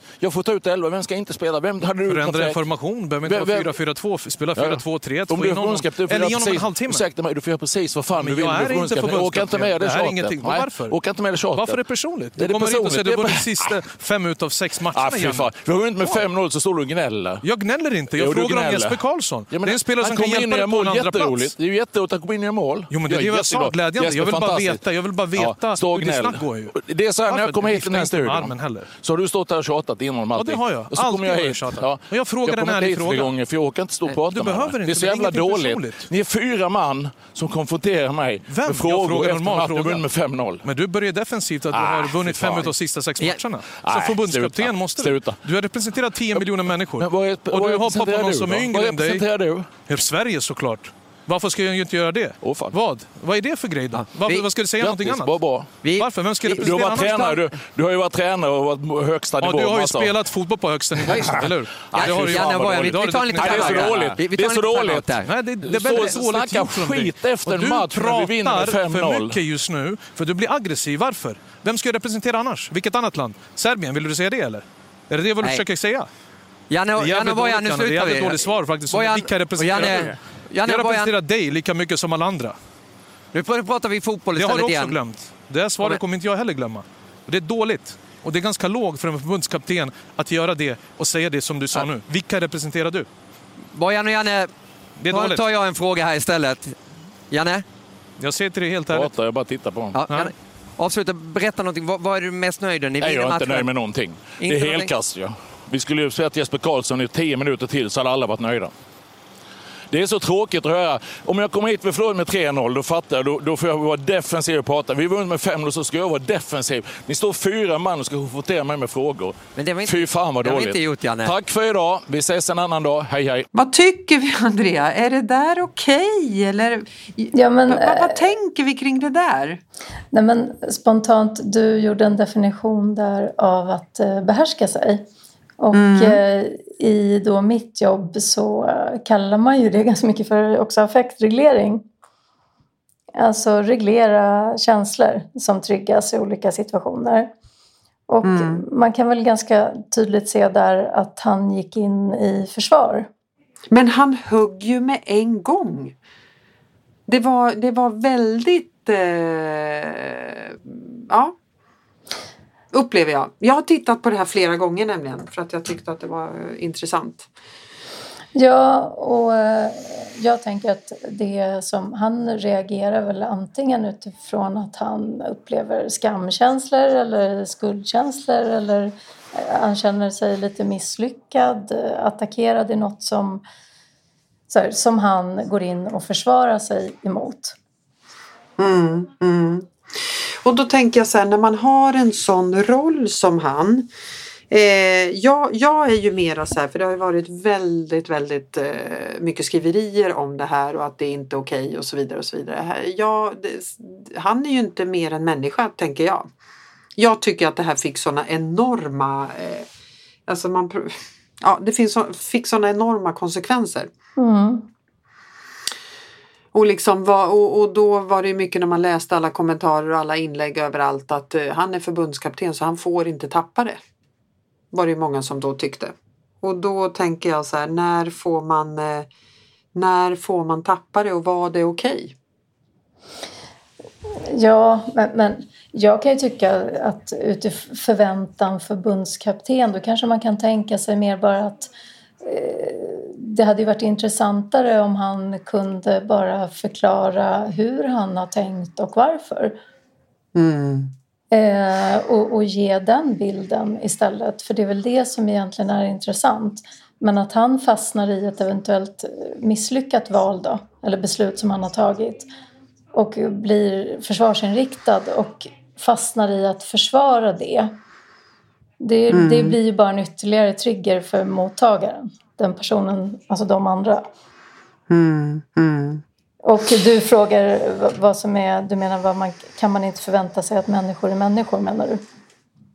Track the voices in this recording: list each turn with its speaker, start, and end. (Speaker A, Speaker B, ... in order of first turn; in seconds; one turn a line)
Speaker A: 0.2-2.6
Speaker B: 2.1-7.0
Speaker A: 3.2-3.8
Speaker A: 4.6-11.8
Speaker B: 8.2-10.9
Speaker B: 11.5-16.2
Speaker A: 12.4-13.8
Speaker A: 14.9-17.4
Speaker B: 17.4-21.5
Speaker A: 18.1-24.8
Speaker B: 22.9-26.8
Speaker A: 25.4-40.7
Speaker B: 27.3-28.9
Speaker B: 30.4-33.3
Speaker B: 34.3-36.1
Speaker B: 38.5-40.0
Speaker B: 40.6-49.2
Speaker A: 41.7-42.7
Speaker A: 43.8-45.4
Speaker A: 46.3-49.7
Speaker B: 49.9-55.3
Speaker A: 52.4-52.8
Speaker C: 54.0-54.4
Speaker A: 54.8-55.7
Speaker C: 55.8-56.8
Speaker B: 55.9-57.4
Speaker A: 56.5-60.1
Speaker B: 59.4-64.2
Speaker A: 61.0-69.4
Speaker C: 61.1-61.4
Speaker C: 61.9-65.3
Speaker B: 65.2-76.1
Speaker C: 76.7-81.1
Speaker B: 77.0-82.5
Speaker C: 83.3-85.0
Speaker B: 84.4-93.1
Speaker C: 93.7-94.5
Speaker B: 95.0-95.4
Speaker C: 95.1-96.8
Speaker C: 97.3-97.6
Speaker B: 98.2-99.1
Speaker A: 98.9-100.0
Speaker C: 99.9-103.7
Speaker A: 103.0-108.7
Speaker C: 104.4-104.9
Speaker A: 109.9-123.5
Speaker C: 119.6-121.3
Speaker D: 123.5-129.6
Speaker E: 127.3-128.3
Speaker E: 130.1-135.1
Speaker E: 135.6-141.8
Speaker D: 135.7-136.2
Speaker E: 143.2-147.3
Speaker E: 148.1-153.1
Speaker D: 148.2-148.6
Speaker D: 153.7-155.9
Speaker D: 157.1-161.3
Speaker D: 162.7-167.3
Speaker E: 168.3-183.4
Speaker E: 184.5-187.6
Speaker D: 188.6-193.9
Speaker D: 194.5-206.3
Speaker D: 207.0-209.7
Speaker D: 210.3-213.9
Speaker E: 214.2-214.7
Speaker D: 216.5-223.8
Speaker D: 224.7-229.1
Speaker D: 229.7-232.2
Speaker E: 234.2-241.7
Speaker E: 242.2-249.6
Speaker D: 250.3-250.9
Speaker E: 251.3-262.3
Speaker E: 262.9-267.8
Speaker E: 268.8-274.1
Speaker D: 269.1-269.6
Speaker D: 274.9-276.0
Speaker E: 276.4-282.0